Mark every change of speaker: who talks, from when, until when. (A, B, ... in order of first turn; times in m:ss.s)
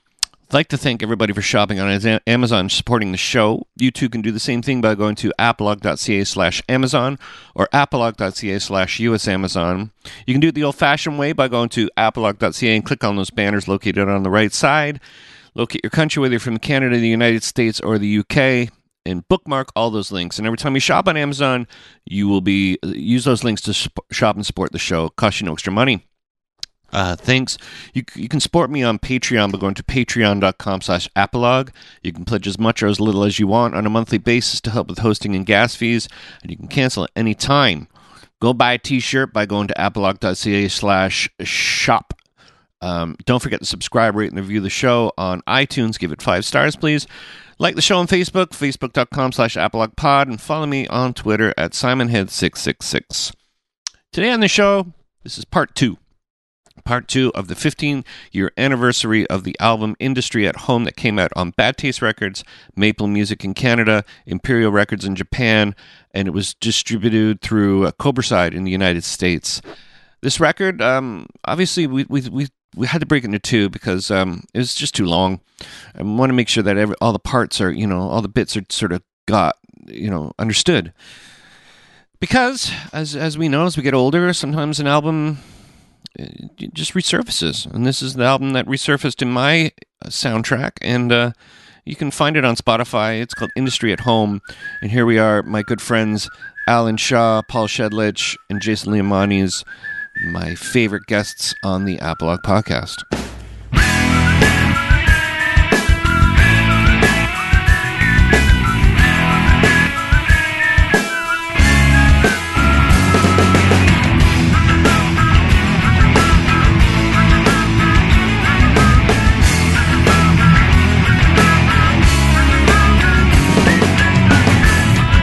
0:00.5-0:15.0 A
0:15.5-0:26.0 A
0:26.9-0:37.9 A
0:38.4-0:42.2 A
0:42.8-0:47.1 A
0:47.6-0:53.3 A
0:54.1-0:56.0 A
0:56.8-1:09.6 A
1:10.2-1:15.4 A
1:15.9-1:20.9 A
1:22.2-1:25.4 A
1:26.1-1:31.3 A
1:31.8-1:39.6 A
1:40.2-1:43.0 A